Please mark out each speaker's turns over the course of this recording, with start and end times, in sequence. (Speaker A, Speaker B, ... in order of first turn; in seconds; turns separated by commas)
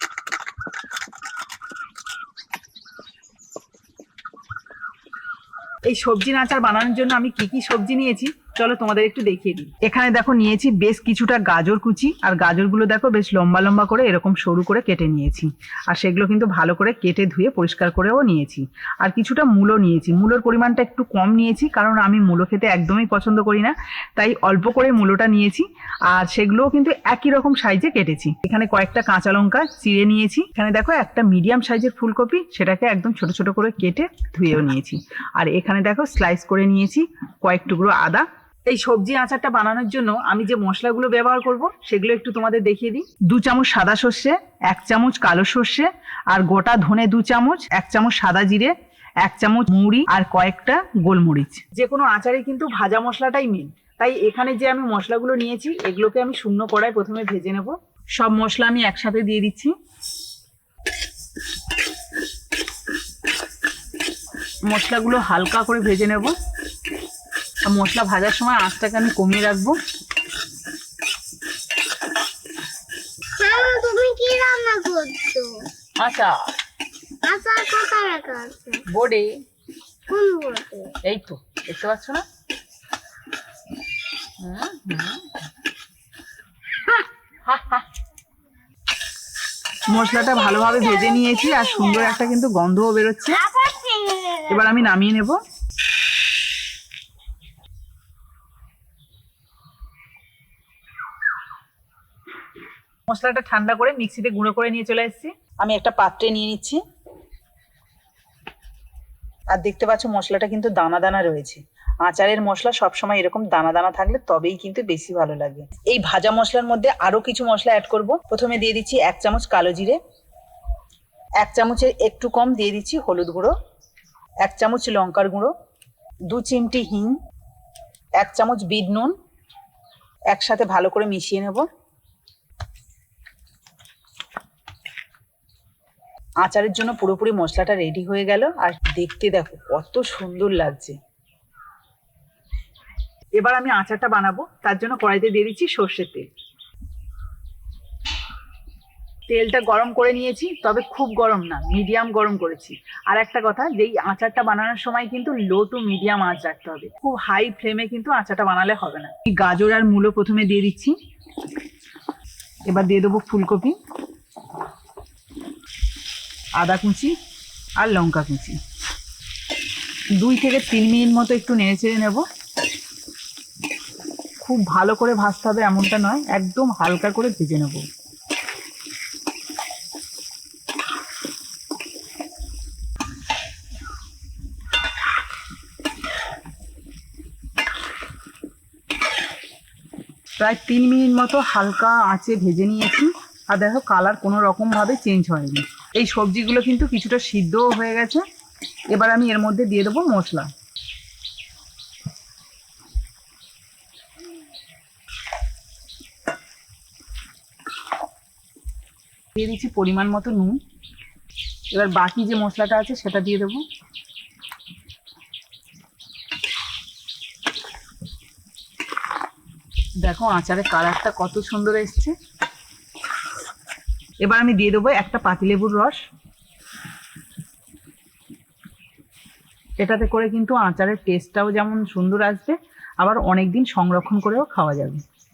Speaker A: 5.9-59.7, Speaker A: 64.7-66.3, Speaker A: 67.7-69.8, Speaker B: 73.4-75.7, Speaker A: 76.0-76.3, Speaker B: 77.2-78.9, Speaker A: 78.9-79.4, Speaker B: 80.1-81.0, Speaker A: 81.0-82.2, Speaker A: 84.4-85.3, Speaker A: 87.5-87.8, Speaker A: 89.9-93.5, Speaker B: 90.2-92.0, Speaker B: 93.4-94.7, Speaker A: 94.5-95.4, Speaker A: 103.1-106.8, Speaker A: 109.5-120.0, Speaker A: 121.4-123.5, Speaker A: 124.4-125.5, Speaker A: 126.3-127.2, Speaker A: 128.2-129.1, Speaker A: 130.3-131.7, Speaker A: 136.4-141.0, Speaker A: 143.4-146.3, Speaker A: 149.3-161.0, Speaker A: 162.7-163.8, Speaker A: 166.6-167.1, Speaker A: 167.8-168.6, Speaker A: 170.2-172.2, Speaker A: 174.4-177.8, Speaker A: 190.4-198.2, Speaker A: 198.9-200.5, Speaker A: 209.3-210.6, Speaker A: 211.7-213.6, Speaker A: 220.0-222.2, Speaker A: 224.2-226.0, Speaker A: 229.8-235.0